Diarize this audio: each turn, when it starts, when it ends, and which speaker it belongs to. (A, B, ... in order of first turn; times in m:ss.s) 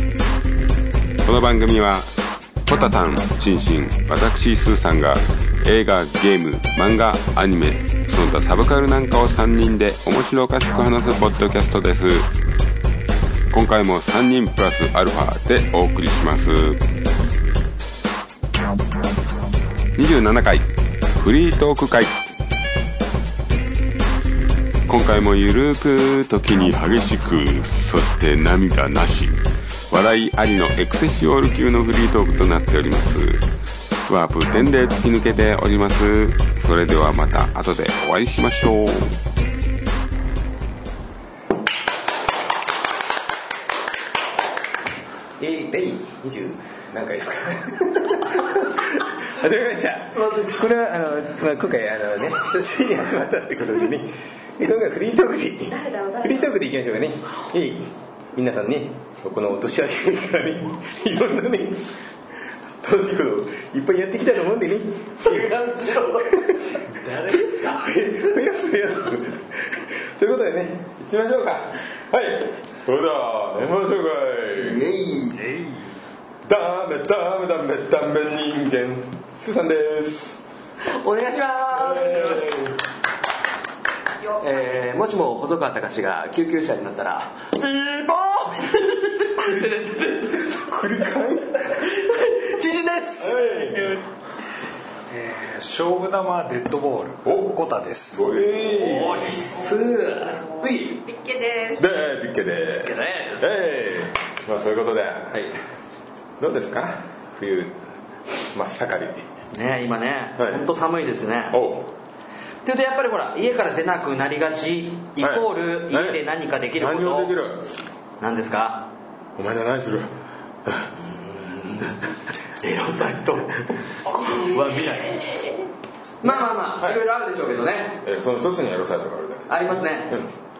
0:01.2-0:02.1 A
0:02.6-0:12.3 A
0:13.5-0:16.8 A
0:20.0-0:22.2 A
0:24.9-0:29.4 A
0:29.9-0:33.4 A
0:34.1-0:39.2 A
0:45.4-1:02.1 B
0:50.1-0:50.7 C
0:55.9-0:56.2 D
1:02.8-1:05.5 B
1:05.2-1:06.4 C
1:06.3-1:06.8 B
1:06.9-1:08.0 E
1:07.3-1:15.2 B
1:15.3-1:15.8 E
1:16.4-1:20.4 B
1:20.8-1:22.7 C
1:21.8-1:22.4 B
1:24.2-1:24.9 D
1:24.4-1:30.6 C
1:30.4-1:31.9 B
1:31.8-1:34.0 C
1:33.2-1:34.0 E
1:35.1-1:38.2 E
1:37.2-1:39.4 B
1:38.7-1:40.8 C
1:40.7-1:41.9 D
1:41.8-1:45.4 B
1:42.8-1:43.8 C
1:45.3-1:45.6 C
1:46.4-1:47.8 B
1:48.5-1:49.2 B
1:49.5-1:51.6 C
1:50.4-1:50.6 B
1:51.5-1:51.9 B
1:52.6-1:57.4 C
1:55.2-1:57.7 B
1:58.2-1:58.9 C
1:59.4-2:00.1 B
2:00.6-2:02.0 B
2:02.6-2:05.6 C
2:04.1-2:05.4 D
2:06.2-2:07.0 B
2:06.2-2:08.0 C
2:08.0-2:10.3 B
2:09.5-2:10.2 C